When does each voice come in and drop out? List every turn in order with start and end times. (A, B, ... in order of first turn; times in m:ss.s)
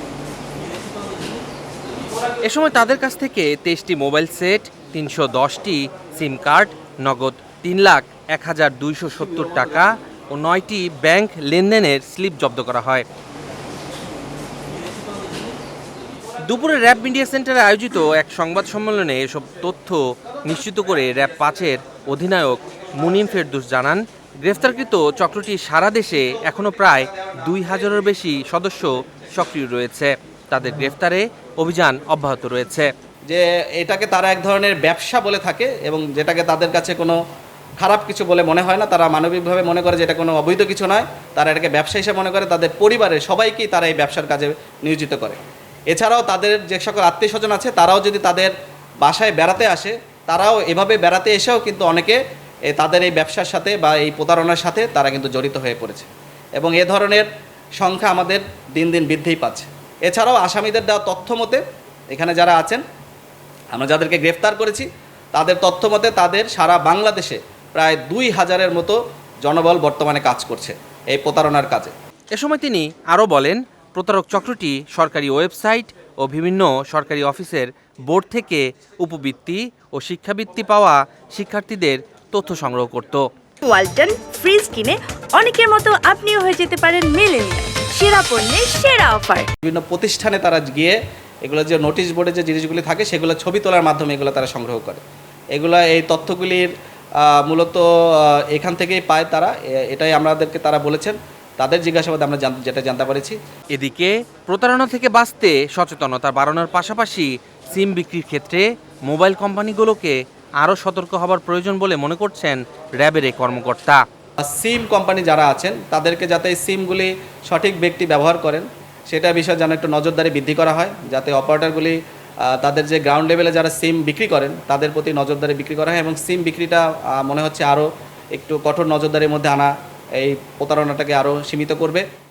0:02.4-0:13.0 A
0:16.5-0:32.9 A
0:33.3-0:37.2 B
0:37.8-0:45.4 B
0:45.9-0:57.3 B
0:57.8-1:02.8 B
1:03.7-1:11.9 B
1:12.3-1:23.2 A
1:23.6-1:29.5 C
1:29.6-1:35.0 B
1:35.5-1:43.4 B
1:43.7-1:54.0 A
1:54.4-2:12.0 B